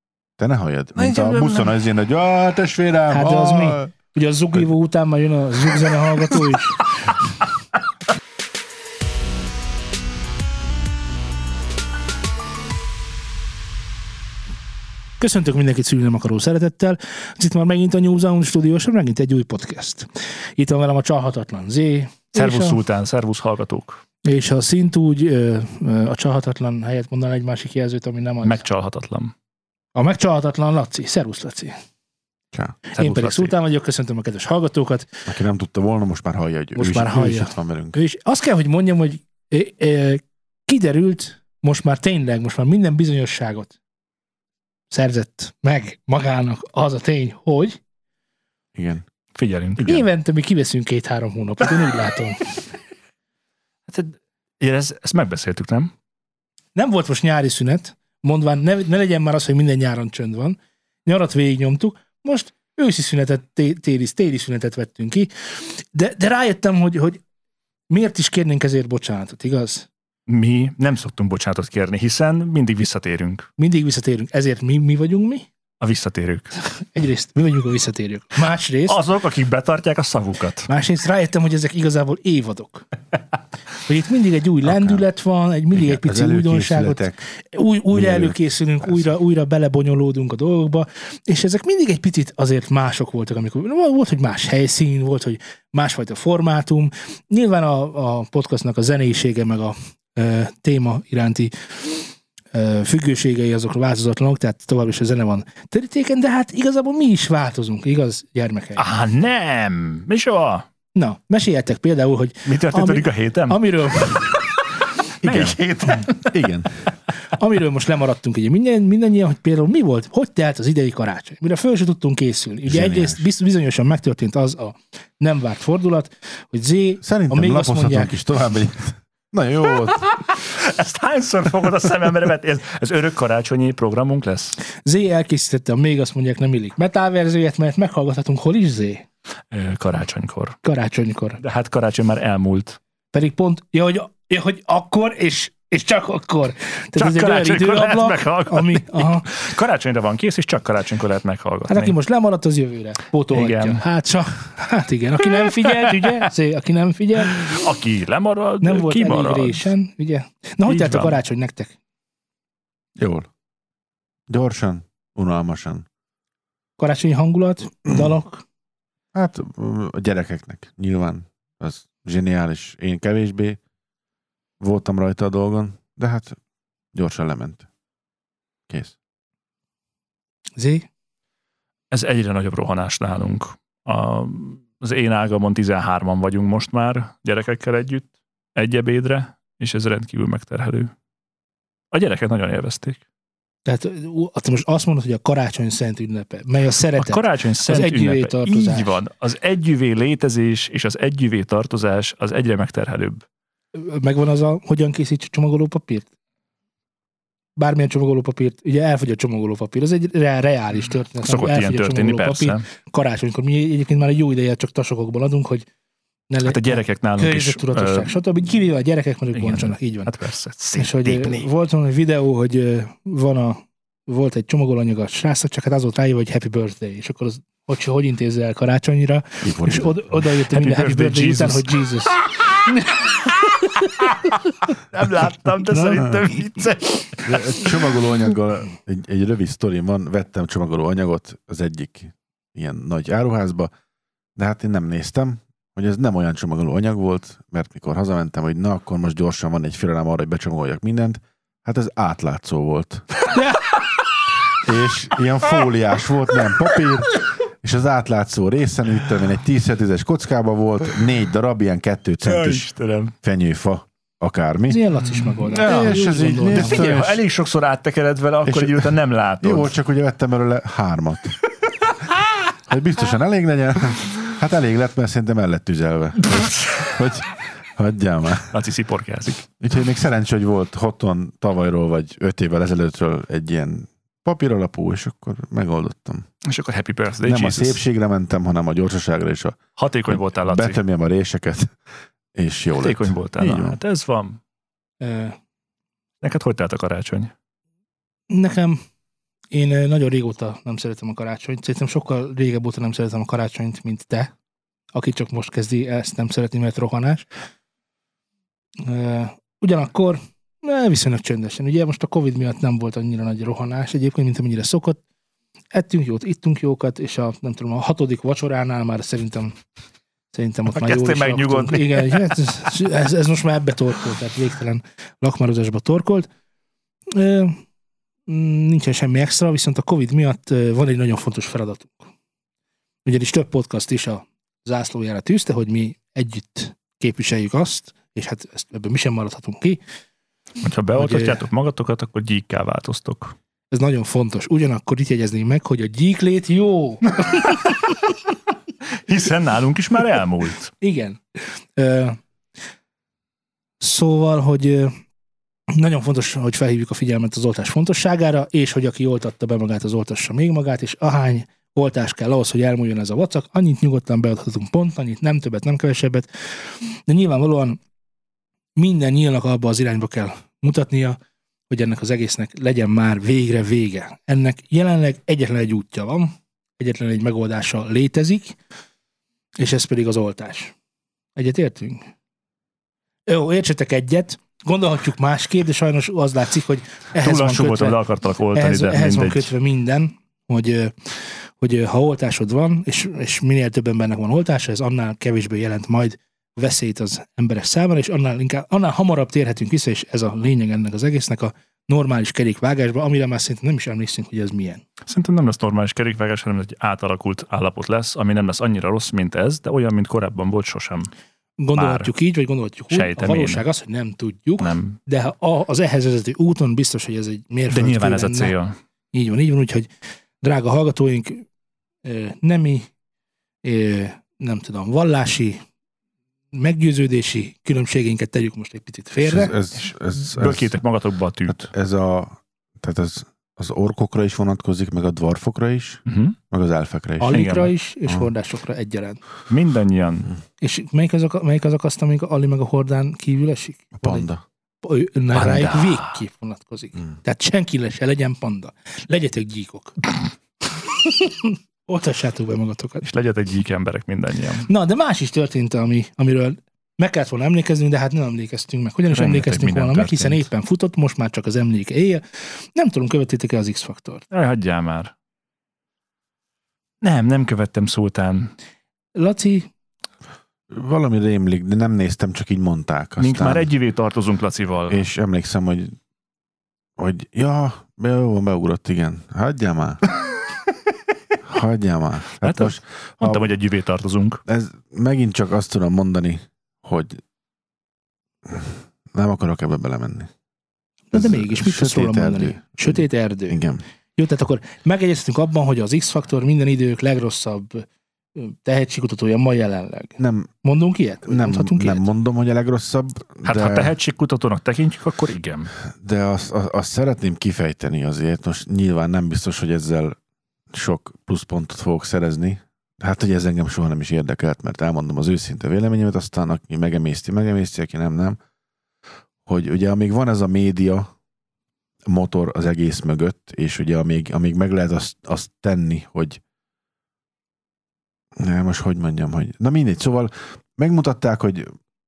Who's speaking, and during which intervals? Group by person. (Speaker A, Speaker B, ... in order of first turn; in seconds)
Speaker A: 0.4-3.9, 35.3-38.0, 48.7-49.0, 84.6-85.0, 85.7-87.2, 87.9-89.1, 115.2-116.7, 122.7-123.2, 127.0-130.0, 163.0-163.3, 164.3-165.8, 169.1-173.6, 174.6-176.4, 176.9-177.7, 178.7-178.9, 229.4-230.2, 237.2-243.7, 244.3-253.1, 254.5-262.6, 263.2-264.8, 265.4-267.2, 268.4-271.4, 272.7-278.5, 279.6-286.2, 287.2-291.8, 292.3-293.8, 429.2-430.7, 431.5-437.4, 444.0-444.4, 470.7-473.7, 474.9-476.0, 477.0-480.0, 481.4-483.5, 484.4-487.2, 488.4-490.3, 491.1-493.8, 500.2-500.5, 501.2-503.9, 506.0-510.1, 510.7-518.4, 519.5-521.1, 522.1-526.4, 528.4-531.7
Speaker B: 1.0-1.7, 22.3-24.0, 28.4-29.3, 32.9-33.5, 49.3-50.0, 53.9-55.9, 70.3-73.5, 75.8-76.5, 78.9-80.7, 108.8-110.7, 112.5-113.6, 115.2-116.2, 130.0-134.6, 139.5-140.6, 141.4-142.8, 146.9-151.9, 153.3-153.8, 155.6-156.2, 157.2-159.7, 160.7-161.2, 181.9-190.9, 191.9-193.0, 197.0-203.2, 211.2-212.6, 216.4-218.1, 219.3-221.5, 230.5-231.7, 233.8-237.2, 262.2-263.1, 265.1-269.7, 278.5-279.4, 286.4-287.8, 289.8-290.8, 292.8-294.4, 296.2-297.3, 320.7-322.3, 340.6-343.3, 349.1-350.7, 387.2-389.5, 405.1-411.1, 411.7-412.1, 412.9-413.6, 414.6-415.0, 417.7-418.7, 429.7-431.7, 436.1-436.4, 437.3-437.7, 439.5-440.3, 445.3-446.2, 453.0-454.7, 459.1-460.5, 464.3-465.1, 467.0-468.5, 473.2-475.0, 482.4-484.4, 503.4-505.7
Speaker C: 3.1-7.2, 15.2-22.8, 24.2-28.6, 29.9-31.7, 33.0-35.3, 36.8-43.7, 44.9-47.8, 49.8-52.6, 56.8-67.2, 67.9-69.9, 73.6-75.5, 76.8-79.0, 80.7-82.9, 83.8-108.8, 110.9-114.5, 117.3-128.2, 134.8-139.0, 140.6-141.4, 143.1-149.3, 151.7-157.7, 158.6-161.8, 166.8-168.4, 180.6-180.9, 193.7-199.0, 203.7-206.1, 207.6-215.7, 216.3-220.1, 220.7-232.2, 235.7-236.2, 264.7-266.9, 295.0-295.4, 298.3-298.8, 299.5-304.3, 304.9-307.2, 308.8-315.0, 315.7-319.5, 320.3-326.3, 327.1-327.6, 328.3-332.1, 333.1-339.8, 340.9-341.4, 343.7-347.9, 350.8-351.2, 351.8-352.2, 353.8-354.9, 355.7-367.8, 368.8-371.2, 371.7-378.6, 379.6-380.7, 381.4-382.0, 383.2-388.0, 388.5-404.8, 411.6-418.5, 419.1-419.9, 420.4-421.4, 422.0-422.9, 423.6-425.6, 426.5-429.5, 437.2-439.2, 440.6-444.3, 444.8-450.1, 450.7-453.0, 454.6-462.2, 462.7-464.2, 469.1-469.7, 491.1-493.6, 494.2-502.0